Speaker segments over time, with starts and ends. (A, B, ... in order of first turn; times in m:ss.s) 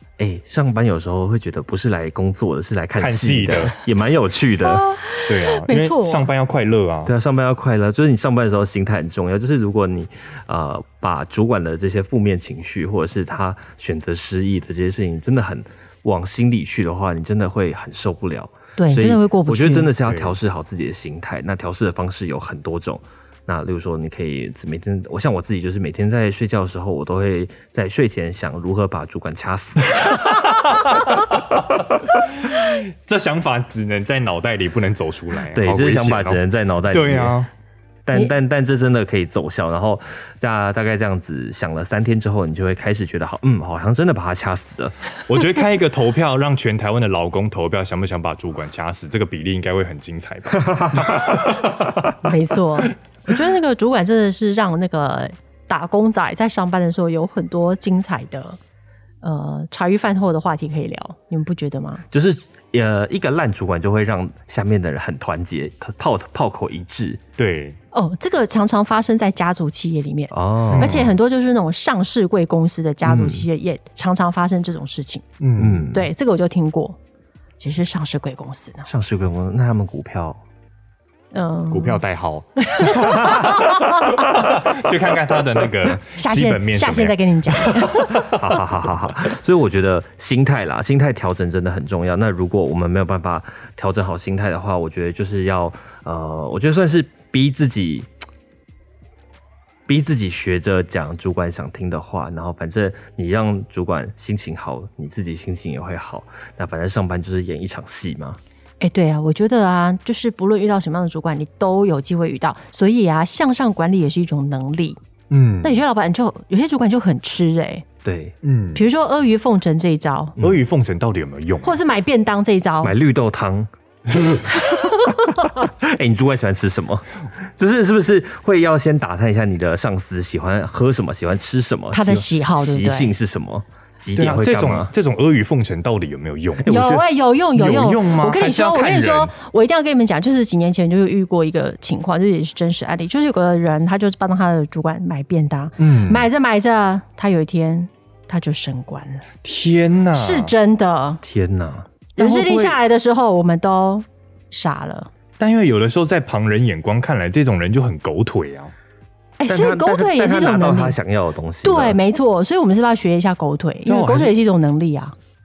0:00.2-0:04.9 A
0:03.0-0:03.8 B
0:04.6-0:06.3 C
0:05.2-0:07.1 B
0:07.0-0:30.2 A
0:18.8-0:19.9 C
0:20.1-0:20.4 B
0:30.2-0:31.6 B
0:32.1-0:37.5 B
0:35.5-0:37.4 A
0:38.0-0:45.0 A
0:45.2-0:51.5 B
0:50.9-0:51.4 A
0:52.2-0:58.6 C
0:59.2-1:02.0 C
1:02.1-1:07.2 A
1:07.4-1:07.8 B
1:07.9-1:15.2 C
1:10.3-1:11.0 A
1:10.7-1:11.1 B
1:13.0-1:13.5 A
1:15.4-1:15.9 B
1:15.6-1:16.1 A
1:15.9-1:17.0 C
1:17.6-1:18.9 C
1:18.8-1:20.4 A
1:21.3-1:22.0 C
1:21.7-1:28.3 B
1:22.6-1:24.2 C
1:26.2-1:28.3 C
1:28.3-1:38.1 A
1:39.9-1:48.4 A
1:48.8-1:55.0 C
1:55.3-1:55.8 B
1:55.6-1:57.8 C
1:58.0-1:58.4 A
1:58.4-1:58.8 B
1:58.7-2:00.4 C
2:00.4-2:01.8 B
2:01.6-2:02.9 C
2:02.8-2:03.7 A
2:05.6-2:07.0 A
2:07.6-2:14.9 A
2:11.9-2:13.2 C
2:14.1-2:16.8 B
2:16.6-2:17.0 A
2:16.6-2:29.2 C
2:17.5-2:19.3 B
2:25.8-2:26.3 B
2:29.4-2:30.5 B
2:30.1-2:31.2 C
2:31.2-2:31.9 A
2:32.2-2:32.7 B
2:32.2-2:35.1 C
2:35.4-2:38.7 B
2:39.4-2:41.0 C
2:39.5-2:42.0 A
2:41.6-2:45.1 C
2:43.8-2:44.4 B